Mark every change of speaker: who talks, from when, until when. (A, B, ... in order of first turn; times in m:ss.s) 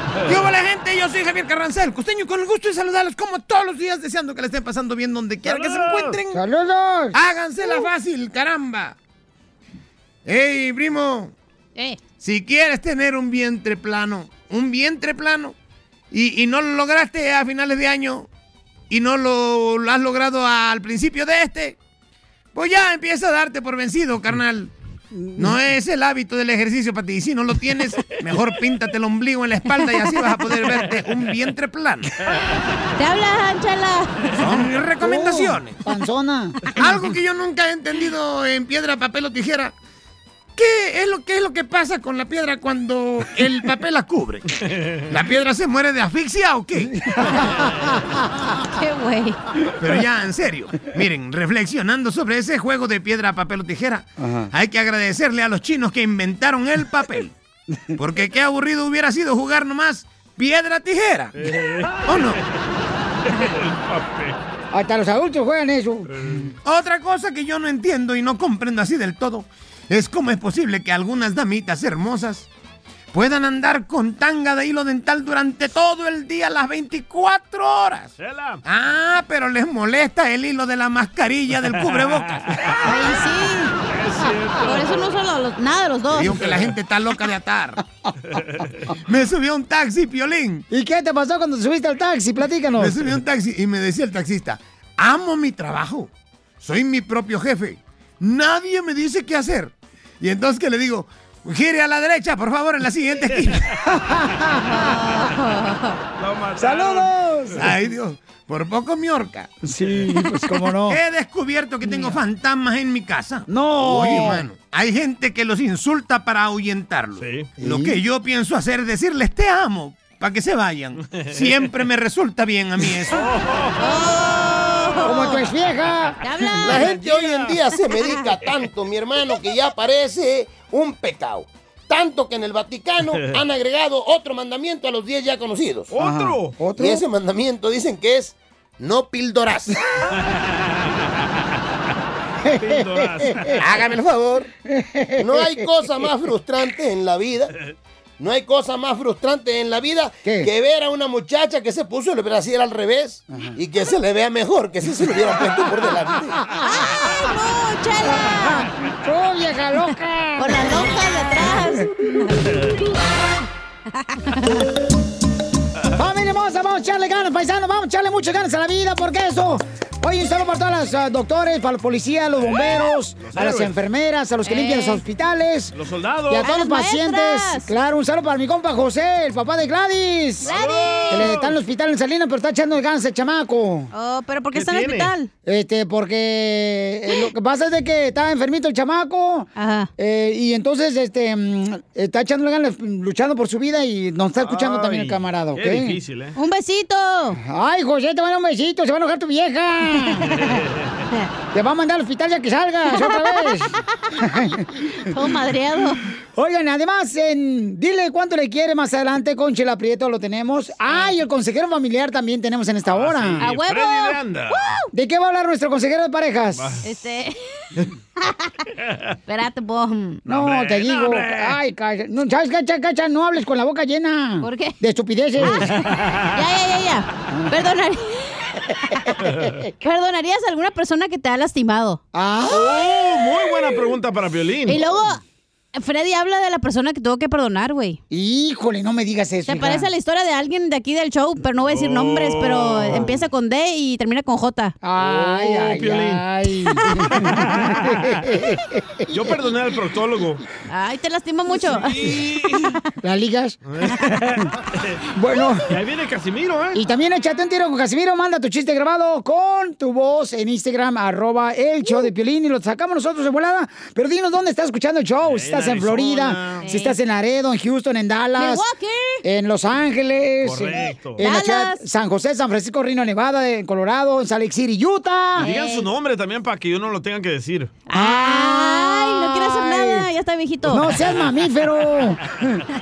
0:00.2-0:06.4 A
0:05.4-0:06.2 B
0:06.3-0:07.2 C
0:07.1-0:09.0 A
0:10.2-0:11.3 A
0:12.2-0:15.5 A
0:16.1-0:18.3 A
0:18.9-0:21.8 A
0:22.5-0:24.7 A
0:25.1-0:25.5 C
0:25.4-0:32.1 A
0:33.0-0:34.5 D
0:34.4-0:35.8 A
0:35.0-0:36.7 C
0:36.8-0:39.7 A
0:40.6-0:44.4 A
0:45.1-0:46.9 A
0:46.9-0:48.2 C
0:48.7-0:49.4 D
0:49.8-0:57.3 A
0:54.2-0:54.5 C
0:58.0-1:01.3 A
1:01.3-1:02.4 B
1:02.0-1:02.4 A
1:03.2-1:04.4 B
1:04.7-1:06.5 C
1:06.1-1:06.5 B
1:06.6-1:12.5 A
1:13.1-1:18.1 A
1:18.2-1:18.6 B
1:18.6-1:22.4 A
1:21.7-1:22.8 B
1:22.8-1:23.7 D
1:23.8-1:25.1 B
1:24.6-1:26.4 D
1:26.1-1:27.8 A
1:26.3-1:26.7 B
1:28.3-1:28.8 B
1:29.1-1:30.6 A
1:30.7-1:33.0 C
1:32.8-1:36.1 A
1:36.6-1:43.6 A
1:43.9-1:44.9 C
1:44.6-1:45.9 D
1:46.2-1:47.7 B
1:46.6-1:47.7 C
1:47.6-1:49.5 A
1:49.6-1:51.0 C
1:50.9-2:03.3 A
1:53.5-1:54.4 C
1:57.2-1:57.5 B
1:57.6-1:58.0 C
2:01.0-2:01.6 B
2:03.2-2:04.1 B
2:03.8-2:05.4 D
2:05.0-2:06.8 C
2:06.2-2:06.9 D
2:06.6-2:15.9 E
2:06.7-2:07.6 B
2:15.9-2:16.6 B
2:16.0-2:17.0 C
2:16.7-2:19.8 E
2:20.2-2:20.5 B
2:22.4-2:23.5 C
2:22.6-2:23.6 B
2:23.6-2:24.5 E
2:24.7-2:25.7 C
2:25.2-2:27.5 E
2:28.2-2:36.4 E
2:30.2-2:30.5 C
2:36.6-2:36.9 C
2:36.6-2:38.7 D
2:38.1-2:41.8 C
2:40.4-2:42.4 D
2:44.0-2:44.6 D
2:45.9-2:55.8 C
2:53.2-2:53.7 B
2:54.4-2:55.0 D
2:55.7-2:56.5 B
2:56.3-3:00.5 C
2:56.4-2:57.7 D
3:00.4-3:01.3 D
3:00.4-3:01.6 B
3:01.1-3:03.9 C
3:03.9-3:05.3 D
3:04.5-3:05.1 B
3:05.4-3:16.0 C
3:09.6-3:09.9 D
3:14.4-3:16.3 B
3:16.3-3:17.4 D
3:17.3-3:20.4 C
3:20.3-3:21.0 B
3:21.5-3:25.0 C
3:23.0-3:23.5 D
3:25.0-3:26.0 D
3:26.3-3:33.5 C
3:32.8-3:34.6 B
3:33.4-3:34.9 D
3:34.9-3:36.8 C
3:36.5-3:36.8 B
3:36.8-3:37.4 D
3:39.3-3:40.2 D
3:40.2-3:45.8 C
3:40.3-3:41.6 B
3:44.4-3:44.8 D
3:45.4-3:45.8 D
3:45.9-3:46.3 B
3:46.3-3:48.4 D
3:49.8-3:52.0 D
3:52.1-3:52.8 C
3:52.5-3:54.8 B
3:54.7-3:55.2 D
3:55.7-3:58.0 D
3:58.1-3:59.9 C
3:59.5-4:04.7 D
4:01.7-4:03.2 B
4:04.8-4:09.2 C
4:05.0-4:06.2 B
4:07.2-4:08.2 B
4:09.1-4:10.4 B
4:10.7-4:12.2 D
4:11.6-4:12.7 B
4:13.0-4:13.6 C
4:13.7-4:15.0 B
4:15.1-4:15.7 C
4:15.7-4:16.8 B
4:16.7-4:28.6 C
4:25.2-4:26.6 B
4:26.6-4:27.0 D
4:28.4-4:29.2 D
4:29.2-4:35.5 C
4:30.4-4:31.2 B
4:31.2-4:31.8 D
4:35.4-4:35.9 D
4:35.4-4:37.8 B
4:37.8-4:41.0 D
4:37.9-4:40.1 C
4:40.6-4:42.6 C